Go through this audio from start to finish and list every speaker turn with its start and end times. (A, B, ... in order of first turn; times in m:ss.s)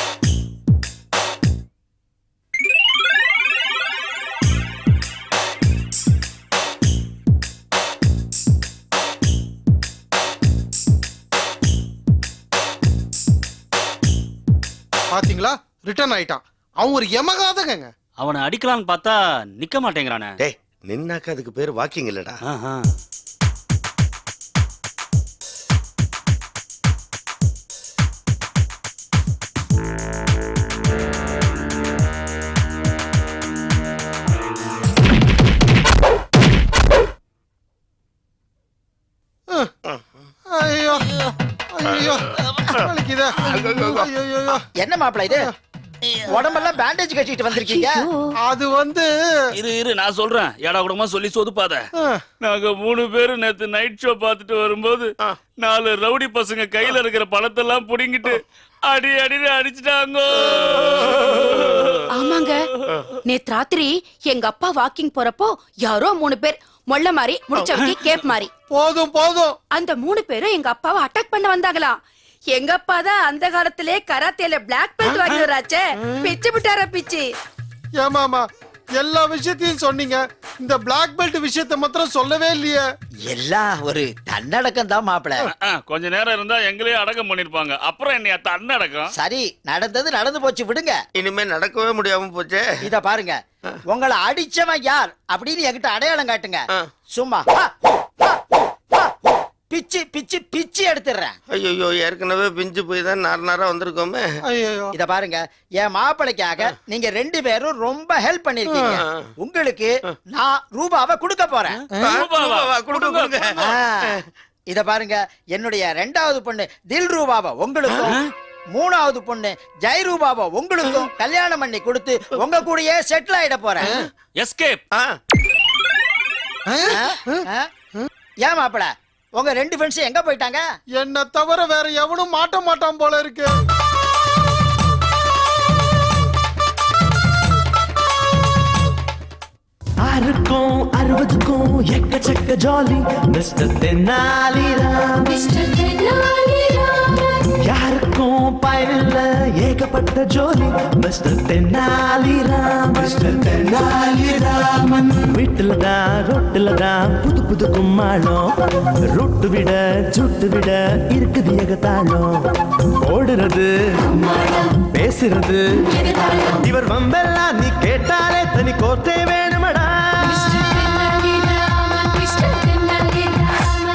0:15.1-0:17.9 A
0:18.2-0:20.3 B
0:20.4-0:22.4 C
0:22.5-0:22.8 B
0:40.5-0:41.0 A
0:41.7-0:42.2 A
0:42.8-0:44.6 A
0:43.5-0:44.0 C
0:44.8-0:45.5 D
0:46.3-0:48.1 D
0:47.6-0:48.3 E
0:48.4-0:49.1 A
0:49.6-0:51.8 B
0:52.0-0:52.2 A
0:52.4-1:02.0 B
1:02.1-1:02.6 E
1:03.2-1:08.5 E
1:08.7-1:09.6 A
1:09.7-1:12.0 E
1:12.5-1:17.3 E
1:18.0-1:18.5 A
1:19.0-1:22.9 A
1:23.3-1:25.5 D
1:25.4-1:29.1 B
1:29.2-1:31.0 D
1:31.2-1:32.7 C
1:32.8-1:33.4 D
1:33.9-1:36.6 D
1:37.1-1:41.4 D
1:41.5-1:44.4 C
1:44.4-1:44.9 A
1:44.9-1:51.8 D
1:49.0-1:49.3 C
1:52.0-1:54.2 C
1:52.0-1:53.7 B
1:53.6-1:54.2 D
1:54.7-1:58.2 D
1:58.7-2:03.9 D
2:04.4-2:04.8 B
2:06.7-2:08.1 A
2:06.9-2:07.7 D
2:08.4-2:10.6 D
2:11.0-2:13.5 A
2:20.0-2:25.4 F
2:25.6-2:27.2 E
2:27.6-2:38.5 F
2:39.1-2:42.4 F
2:43.0-2:50.8 F
2:50.9-2:53.7 E